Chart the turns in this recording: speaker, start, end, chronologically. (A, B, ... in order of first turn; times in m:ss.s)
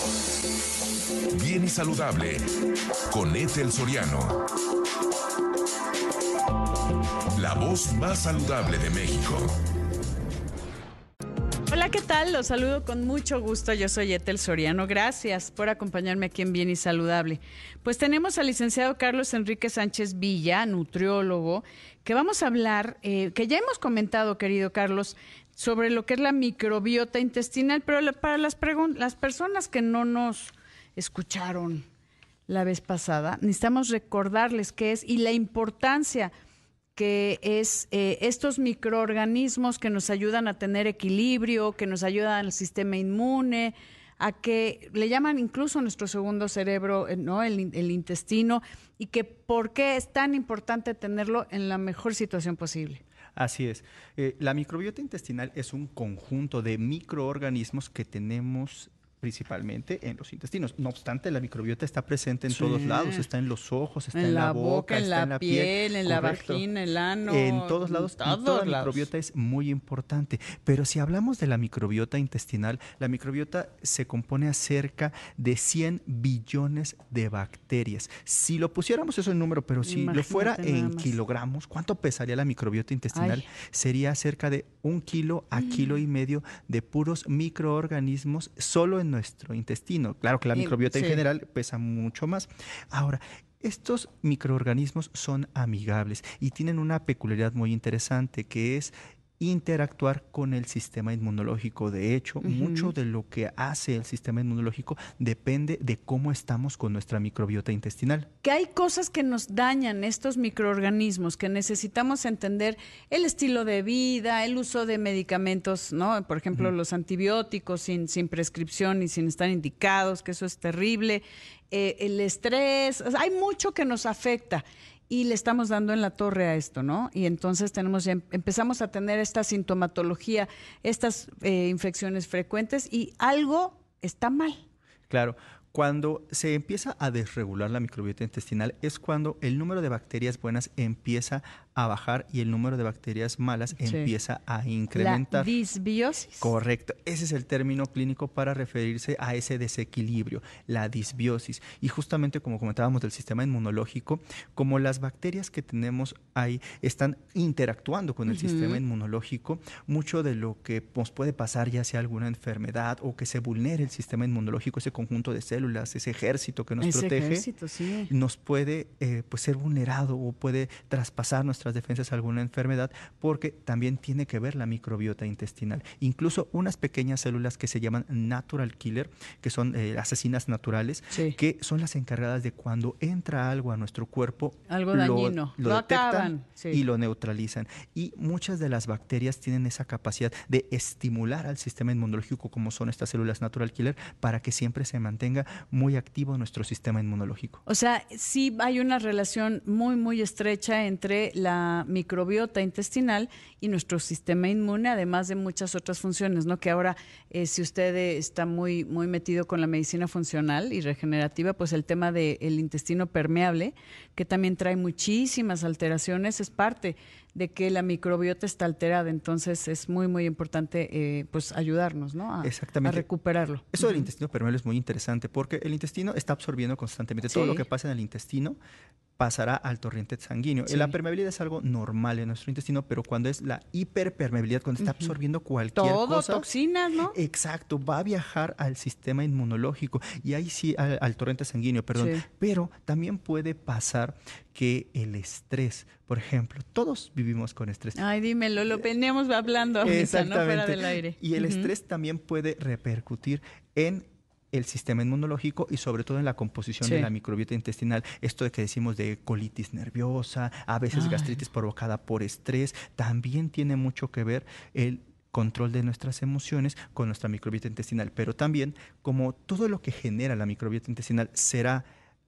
0:01.4-0:02.4 A
0:03.1-0:04.4 A
0:07.4-0:09.5 A
0:11.7-0:31.8 B
0:32.5-0:36.3 B
0:37.0-0:53.0 B
0:53.4-1:06.6 C
1:02.5-1:03.2 B
1:04.1-1:09.1 B
1:07.2-1:48.3 C
1:19.8-1:21.1 B
1:23.1-1:23.4 B
1:30.5-1:31.2 B
1:42.4-1:42.9 B
1:48.4-2:14.6 B
2:15.1-2:25.5 C
2:23.8-2:24.1 B
2:24.9-2:26.5 B
2:26.4-2:47.5 C
2:38.3-2:38.8 B
2:46.8-2:48.1 B
2:48.1-3:17.6 C
3:01.1-3:01.4 B
3:04.7-3:06.8 B
3:17.6-3:44.1 B
3:42.4-3:43.0 C
3:43.7-3:48.6 C
3:47.3-3:47.6 B
3:49.2-3:56.5 C
3:50.7-3:50.9 B
3:54.8-3:55.1 B
3:55.7-3:57.1 B
3:57.1-4:08.0 C
4:02.0-4:02.2 B
4:07.9-4:11.7 B
4:09.8-4:31.8 C
4:16.8-4:17.1 B
4:20.9-4:21.4 B